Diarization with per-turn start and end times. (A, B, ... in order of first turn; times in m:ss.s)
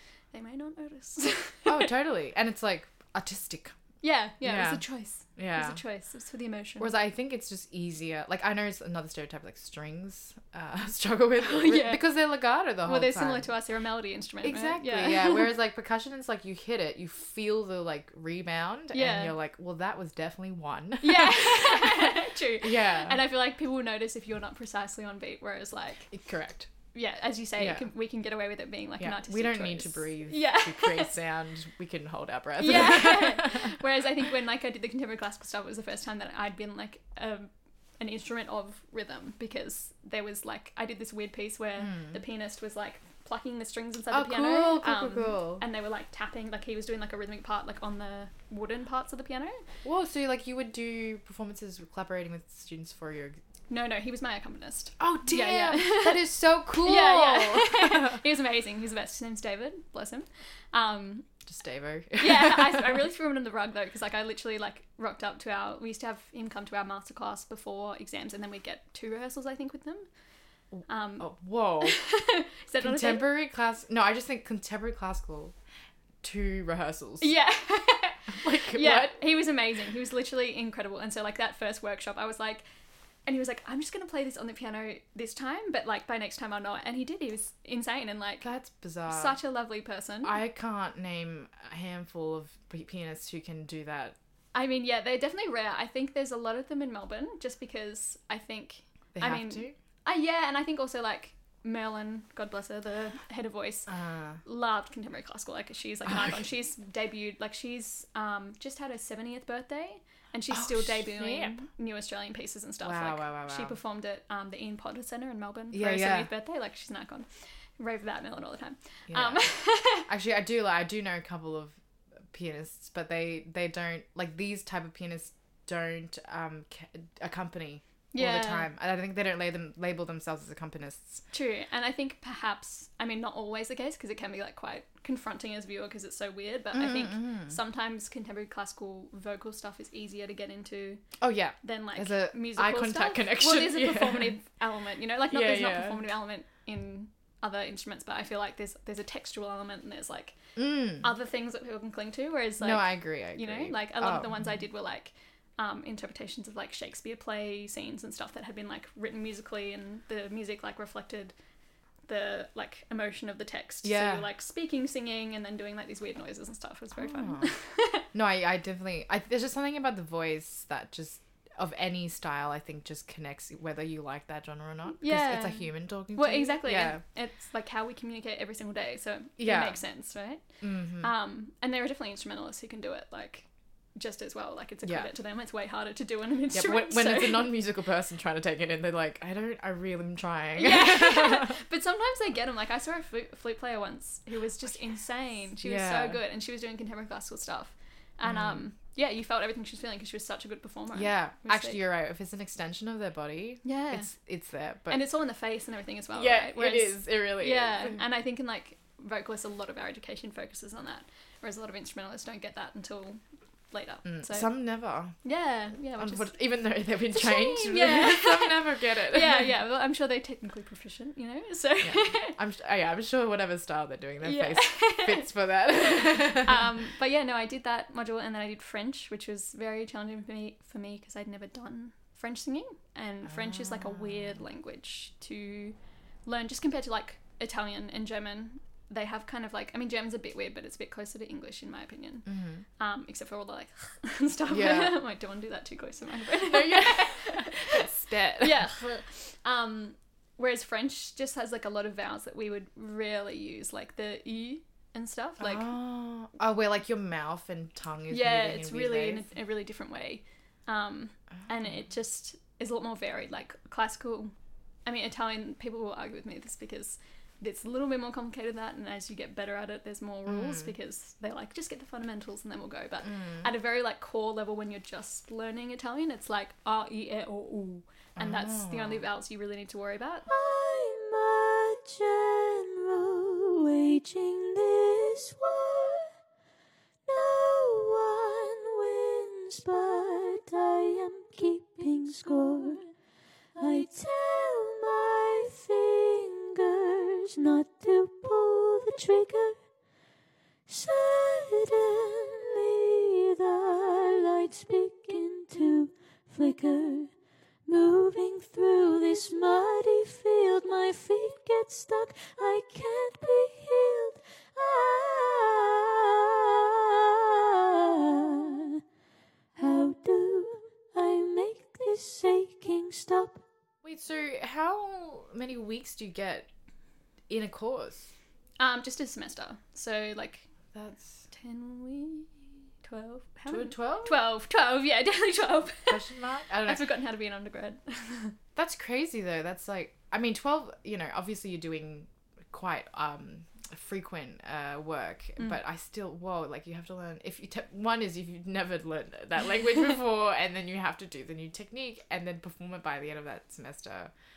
0:00.3-0:01.9 A
0:01.7-0:03.7 B
0:04.0-0:06.9 A
0:04.4-0:04.8 B
0:05.4-0:05.8 B
0:06.8-0:13.5 B
0:11.4-0:12.0 A
0:12.8-0:15.5 A
0:14.4-0:23.2 B
0:18.9-0:19.4 A
0:21.0-0:26.1 A
0:26.1-0:26.7 B
0:26.9-0:31.2 A
0:27.6-0:27.9 B
0:29.0-0:33.8 B
0:32.6-0:49.6 A
0:41.8-0:42.2 B
0:44.1-0:45.6 B
0:49.8-0:53.4 B
0:53.7-1:01.3 A
0:55.0-0:58.2 B
1:01.5-1:03.0 B
1:02.2-1:10.1 A
1:10.8-1:12.0 B
1:10.9-1:13.3 A
1:12.8-1:15.5 B
1:16.2-1:17.3 B
1:17.2-1:22.6 A
1:18.3-1:19.2 B
1:23.3-1:28.5 A
1:28.4-1:29.4 B
1:29.1-1:30.4 A
1:30.2-1:34.2 B
1:34.5-1:43.9 A
1:39.2-1:39.8 B
1:43.9-1:44.4 B
1:44.4-1:57.3 A
1:50.5-1:51.6 B
1:52.8-1:53.8 B
1:55.7-1:56.3 B
1:57.8-2:00.1 A
1:59.1-1:59.5 B
2:00.1-2:01.8 B
2:02.3-2:11.2 B
2:08.1-2:08.7 A
2:11.3-2:21.0 A
2:16.7-2:17.6 B
2:21.2-2:24.4 B
2:21.6-2:41.3 A
2:25.3-2:26.0 B
2:30.6-2:31.1 B
2:32.6-2:34.4 B
2:42.1-2:48.1 A
2:43.8-2:44.3 B
2:47.0-2:47.5 B
2:48.1-2:57.0 B
2:55.0-3:00.4 A
2:59.4-2:59.8 B
3:00.6-3:01.1 B
3:01.0-3:07.5 A
3:06.5-3:11.6 B
3:10.6-3:21.8 A
3:15.6-3:16.2 B
3:18.2-3:18.6 B
3:20.9-3:25.0 B
3:23.6-3:24.1 A
3:24.9-3:34.5 A
3:26.1-3:28.0 B
3:34.1-3:35.2 B
3:35.2-3:36.4 A
3:36.0-3:39.5 B
3:37.1-3:42.4 A
3:41.8-3:46.6 B
3:44.2-4:15.7 A
3:53.3-3:54.4 B
4:02.3-4:02.6 B
4:04.5-4:05.0 B
4:06.4-4:08.7 B
4:15.4-4:19.2 B
4:18.1-4:24.3 A
4:24.9-4:40.3 A
4:30.3-4:30.7 B
4:33.1-4:33.4 B
4:38.2-4:39.0 B
4:40.3-4:46.1 C
4:47.1-4:52.9 C
4:53.6-4:59.6 C
5:00.7-5:07.1 C
5:07.7-5:18.8 C
5:19.6-5:23.4 C
5:23.8-5:26.5 B
5:27.3-5:28.1 B
5:28.6-5:30.5 A
5:30.7-5:31.2 B
5:31.3-5:36.0 A
5:33.5-5:34.2 B
5:35.9-5:36.8 B
5:36.6-5:38.4 A
5:38.6-5:54.1 B